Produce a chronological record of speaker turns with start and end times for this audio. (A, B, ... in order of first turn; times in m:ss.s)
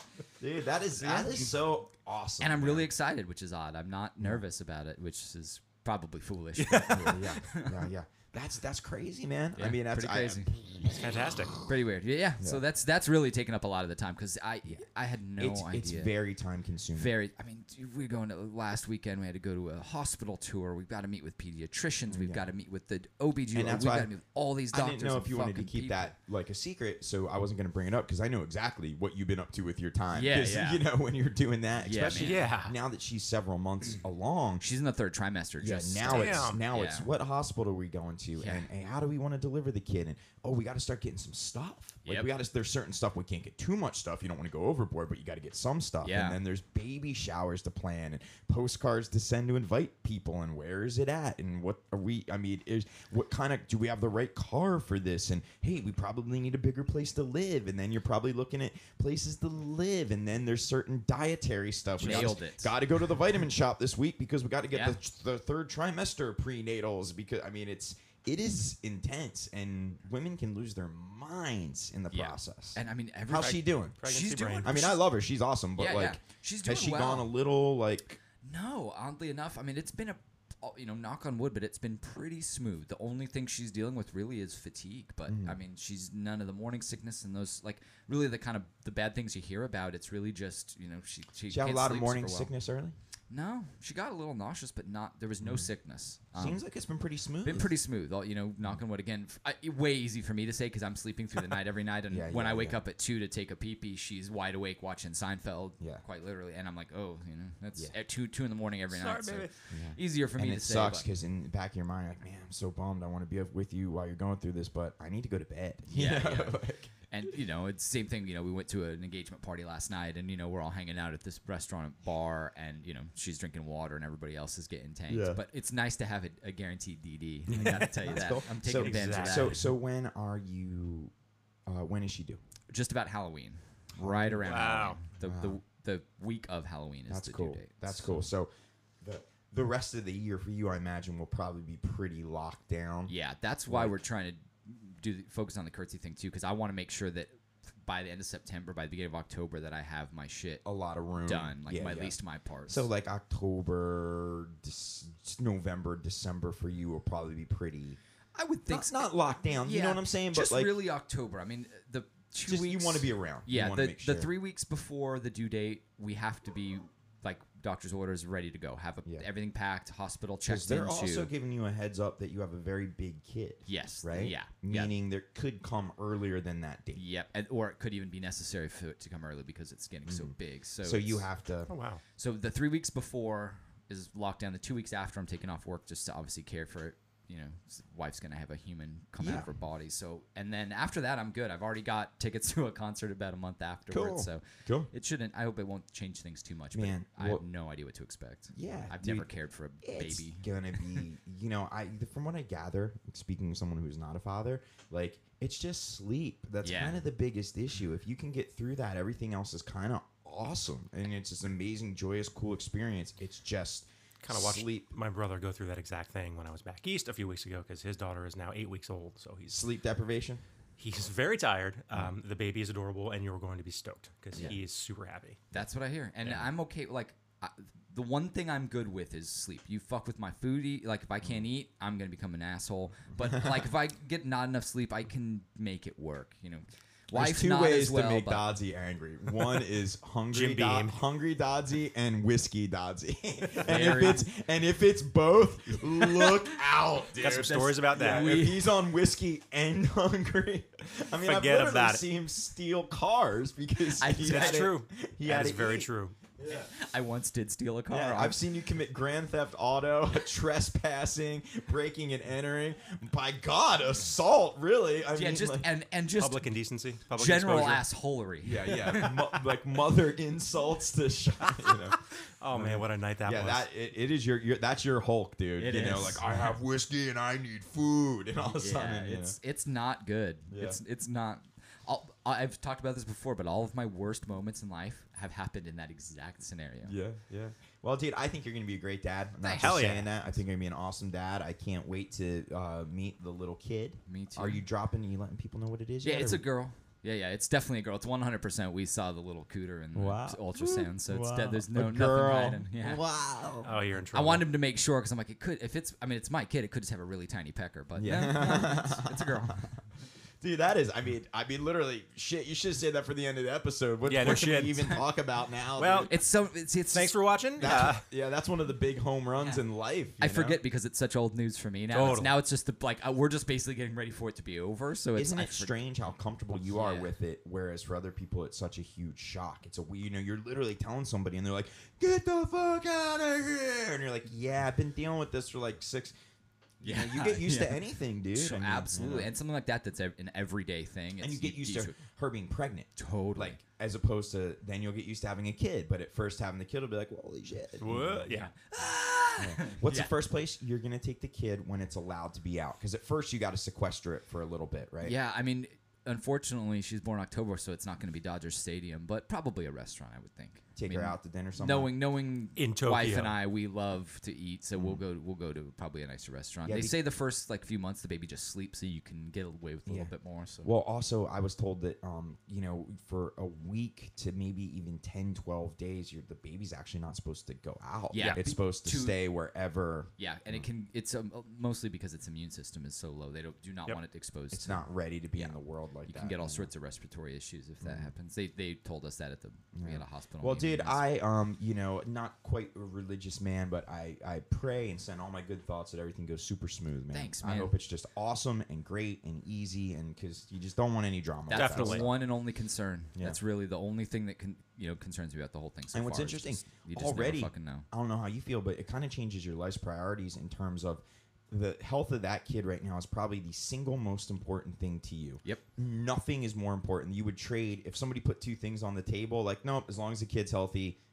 0:00.4-0:02.9 A
0:02.4-0:07.8 B
0:06.6-0:07.2 C
0:06.9-0:11.7 A
0:09.6-0:10.5 B
0:10.9-0:11.6 C
0:11.6-0:16.1 B
0:15.4-0:17.1 A
0:16.9-0:26.1 B
0:22.1-0:22.4 A
0:23.5-0:24.1 A
0:24.7-0:34.6 A
0:30.1-0:30.8 B
0:31.8-0:32.5 B
0:32.1-0:32.7 C
0:34.6-0:37.1 B
0:35.6-1:14.0 A
0:36.1-0:36.6 C
0:38.4-0:38.7 B
0:42.0-0:42.3 B
0:46.0-0:46.4 B
1:02.0-1:02.7 B
1:04.7-1:05.0 B
1:12.1-1:15.0 B
1:13.3-1:14.8 C
1:14.6-1:18.2 A
1:15.8-1:17.3 B
1:18.4-1:32.5 B
1:25.3-1:25.6 A
1:31.5-1:32.9 A
1:33.3-1:36.6 B
1:35.4-1:35.7 A
1:36.3-1:37.7 A
1:37.4-1:51.1 B
1:42.1-1:42.8 A
1:48.9-1:49.5 C
1:49.7-1:56.9 A
1:55.9-2:09.6 B
2:05.1-2:05.4 A
2:07.5-2:09.6 C
2:07.5-2:11.1 A
2:11.6-2:12.4 A
2:12.7-2:18.2 B
2:14.0-2:15.6 A
2:14.4-2:15.0 C
2:17.1-2:18.5 A
2:19.0-2:23.1 A
2:23.1-2:30.6 B
2:23.7-2:24.0 A
2:30.6-2:32.2 A
2:31.2-2:32.9 B
2:32.7-2:38.0 A
2:38.3-2:39.1 B
2:38.7-2:40.8 A
2:39.6-2:51.3 B
2:42.4-2:44.3 A
2:50.4-2:57.0 A
2:53.6-2:54.9 B
2:56.9-3:01.2 B
3:00.1-3:01.7 A
3:01.7-3:02.0 C
3:02.2-3:21.0 B
3:09.2-3:09.5 A
3:13.9-3:14.9 A
3:16.7-3:17.4 A
3:18.5-3:19.3 A
3:19.8-3:34.8 A
3:26.6-3:27.0 B
3:34.2-3:39.6 C
3:39.5-3:40.4 A
3:40.8-3:45.4 C
3:45.5-3:58.5 B
3:53.1-3:53.7 A
3:57.1-4:16.7 A
4:00.3-4:01.0 C
4:03.6-4:04.3 B
4:06.0-4:06.5 B
4:07.2-4:08.3 C
4:07.2-4:08.7 B
4:11.2-4:12.0 C
4:14.0-4:14.7 B
4:14.2-4:16.1 C
4:16.5-4:18.4 B
4:17.9-4:25.7 A
4:25.1-4:26.4 B
4:26.2-4:27.8 C
4:27.1-4:29.2 B
4:28.4-4:39.4 A
4:32.4-4:33.6 C
4:35.6-4:36.5 B
4:38.6-4:46.9 B
4:40.5-4:40.8 A
4:46.8-4:56.4 A
4:49.4-4:49.9 B
4:49.6-4:50.1 C
4:54.1-4:54.6 B
4:56.0-5:03.0 B
4:59.9-5:03.7 A
5:03.6-5:04.4 C
5:04.1-5:09.7 B
5:08.0-5:09.7 A
5:10.4-5:16.1 A
5:14.0-5:15.0 C
5:15.8-5:16.1 C
5:16.1-5:17.1 B
5:16.9-5:18.0 C
5:17.6-5:20.6 A
5:20.2-5:25.7 B
5:21.9-5:22.3 C
5:25.2-5:36.1 A
5:26.7-5:27.1 B
5:36.8-5:39.3 A
5:36.8-5:42.0 B
5:41.2-5:48.3 A
5:43.0-5:43.6 B
5:47.8-5:48.5 C
5:48.3-5:50.1 B
5:49.4-5:55.1 A
5:55.0-6:10.7 B
6:00.8-6:01.9 A
6:02.6-6:03.4 C
6:04.8-6:05.0 A
6:06.6-6:07.0 A
6:09.9-6:10.1 A
6:10.6-6:20.7 A
6:18.1-6:19.2 B
6:20.2-6:24.8 B
6:24.5-6:26.7 A
6:25.3-6:31.0 B
6:27.8-6:28.1 A
6:29.7-6:42.2 A
6:37.1-6:37.7 B
6:41.5-6:47.9 B
6:41.5-6:42.0 C
6:45.9-7:01.0 A